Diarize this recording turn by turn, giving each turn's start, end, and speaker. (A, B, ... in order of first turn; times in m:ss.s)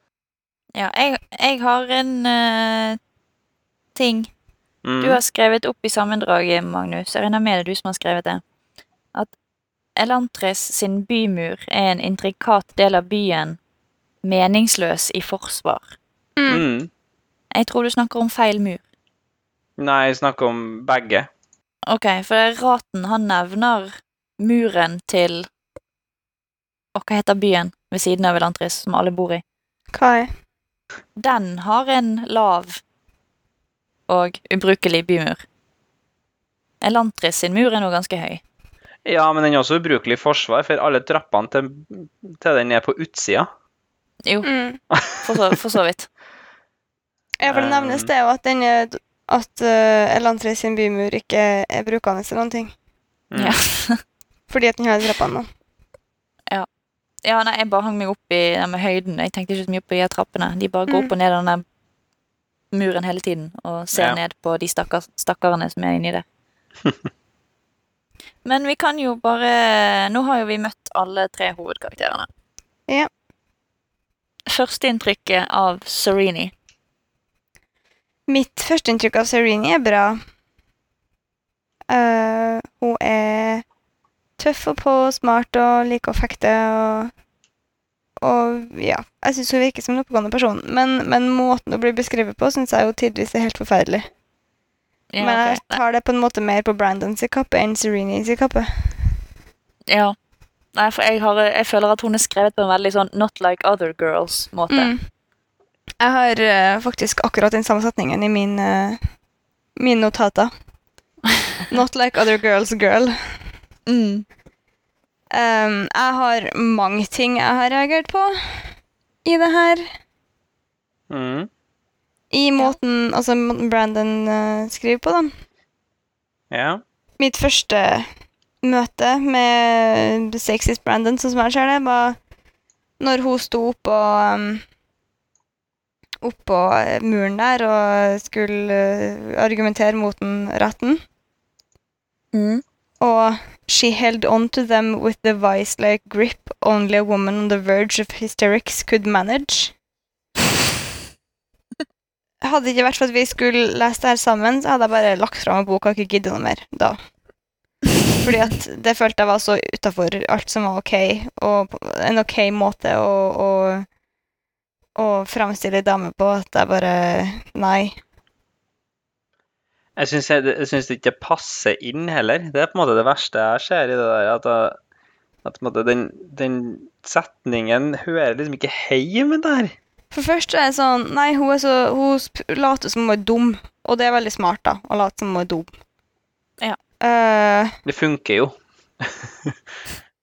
0:00.8-0:03.0 A
0:04.0-0:04.3 A
0:04.8-0:05.2 B
0:05.0-0:08.4 A
0:10.0-0:13.6 A
0:14.2-0:15.9 A
0:16.4-0:16.6 C
0:16.5-0:16.9 B
0:17.5-0:18.8 A
0:19.8-0:21.3 B
0:21.9-0:25.5 A
0:27.0-0:29.4 A
0:29.9-0:30.3 C
0:31.2-0:32.8 A
0:34.1-0:35.4 A
0:36.8-0:38.4 A
0:39.0-0:43.5 B
0:44.4-0:44.8 C
0:44.9-0:45.5 B
0:45.2-0:46.1 A
0:47.4-0:52.7 C
0:47.5-0:48.1 B
0:53.3-0:53.6 B
0:53.4-0:54.0 A
0:54.5-0:55.5 C
0:57.2-1:01.6 A
1:02.7-1:06.2 A
1:08.4-1:12.3 A
1:14.5-1:16.5 A
1:18.3-1:20.2 C
1:21.9-1:23.6 C
1:24.4-1:27.1 C
1:28.2-1:34.1 C
1:35.1-1:35.8 A
1:35.2-1:38.7 C
1:39.9-1:40.2 A
1:40.8-1:44.9 A
1:44.7-1:45.0 C
1:46.0-1:49.0 C
1:49.8-1:50.5 C
1:51.7-1:53.2 C
1:53.9-1:54.3 A
1:55.3-1:58.3 C
1:59.2-1:59.9 C
2:01.1-2:01.5 B
2:02.3-2:05.3 C
2:06.5-2:06.8 B
2:07.2-2:08.1 C
2:08.6-2:12.2 C
2:13.0-2:14.6 C
2:16.2-2:21.0 C
2:22.3-2:22.6 A
2:23.0-2:29.7 C
2:32.4-2:37.0 C
2:38.2-2:43.9 C
2:45.0-2:48.0 C
2:50.0-2:54.8 B
2:55.4-2:59.7 B
3:00.1-3:05.7 C
3:07.0-3:07.8 C
3:07.9-3:09.5 B